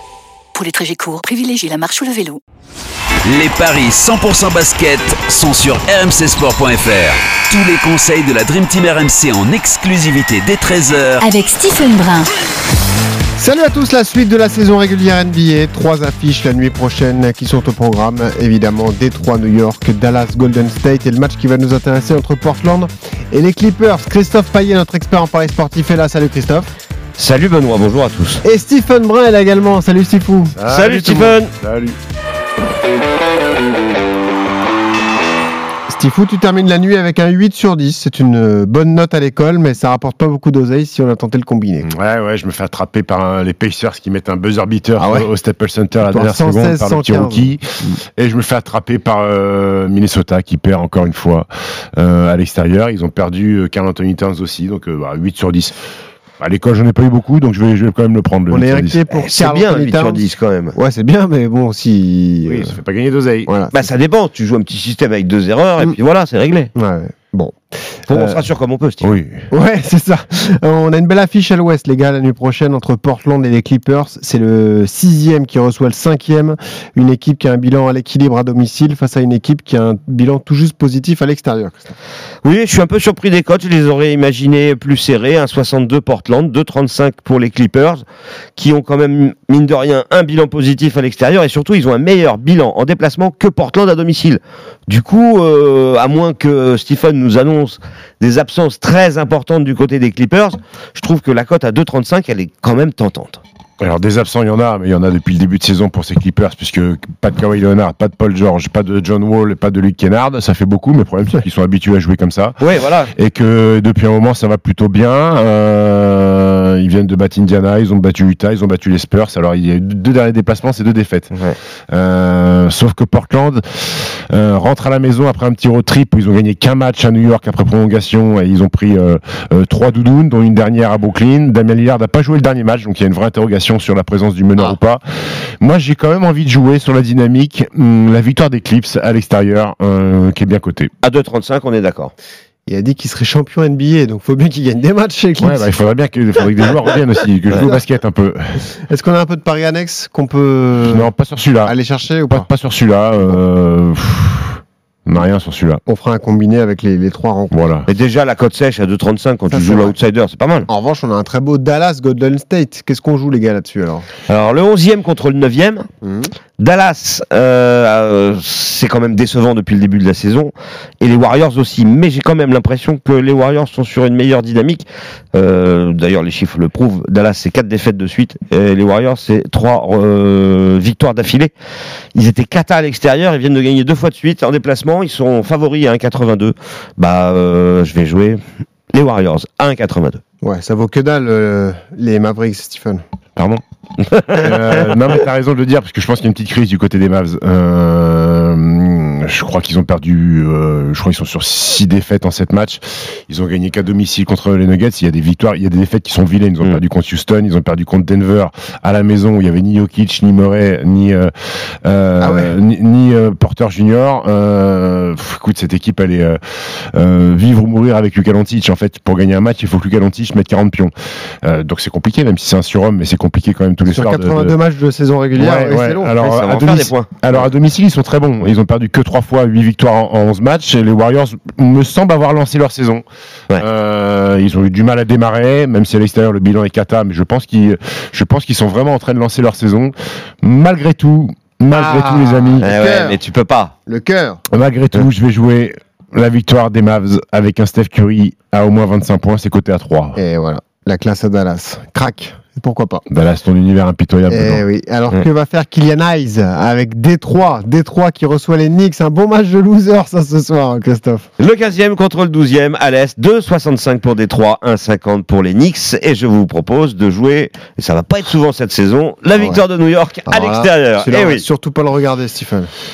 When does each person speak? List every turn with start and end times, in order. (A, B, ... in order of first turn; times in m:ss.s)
0:00.6-0:02.4 A
0:03.3-0:11.3 B
0:11.2-0:12.3 A
0:13.4-0:26.7 C
0:27.2-0:28.4 D
0:28.4-0:30.6 C
0:30.5-0:32.0 E
0:30.7-0:31.5 D
0:35.9-0:41.9 C
0:41.8-0:55.8 E
0:45.0-0:45.3 C
0:46.0-0:47.9 C
0:56.4-0:59.0 E
0:58.5-1:02.8 C
0:59.1-1:00.7 D
1:02.5-1:03.5 E
1:03.5-1:03.9 C
1:03.7-1:06.7 D
1:06.8-1:07.6 C
1:08.1-1:09.1 D
1:08.1-1:08.4 C
1:09.0-1:09.4 E
1:09.5-1:22.0 C
1:22.4-1:28.0 D
1:28.6-1:43.4 D
1:43.8-1:52.6 E
1:52.6-1:53.1 D
1:53.1-2:01.3 E
2:01.3-2:01.6 D
2:01.9-2:15.0 E
2:15.6-2:20.9 E
2:21.0-2:22.1 D
2:22.7-2:25.7 C
2:25.4-2:28.6 E
2:27.5-2:27.8 C
2:28.9-2:31.1 C
2:30.8-2:31.8 E
2:31.6-2:32.5 C
2:32.3-2:35.8 E
2:35.9-2:37.6 C
2:37.5-2:37.9 E
2:37.9-2:40.7 D
2:39.5-2:40.0 C
2:40.7-2:44.1 C
2:44.3-2:45.9 D
2:46.0-2:46.3 C
2:46.6-3:01.5 D
3:02.2-3:08.4 D
3:08.9-3:10.2 D
3:10.4-3:13.0 C
3:13.4-3:13.6 E
3:14.1-3:31.3 E
3:31.8-3:36.4 E
3:32.2-3:32.5 C
3:36.9-3:40.9 E
3:41.4-3:44.6 E
3:43.9-3:46.2 C
3:45.4-3:53.0 E
3:46.2-3:47.2 D
3:53.6-4:02.7 E
4:01.8-4:03.2 C
4:02.6-4:03.7 D
4:03.9-4:04.4 C
4:04.5-4:10.2 E
4:10.2-4:13.0 C
4:13.1-4:14.6 E
4:14.3-4:21.3 C
4:21.4-4:31.4 D
4:29.3-4:29.6 C
4:30.3-4:32.7 C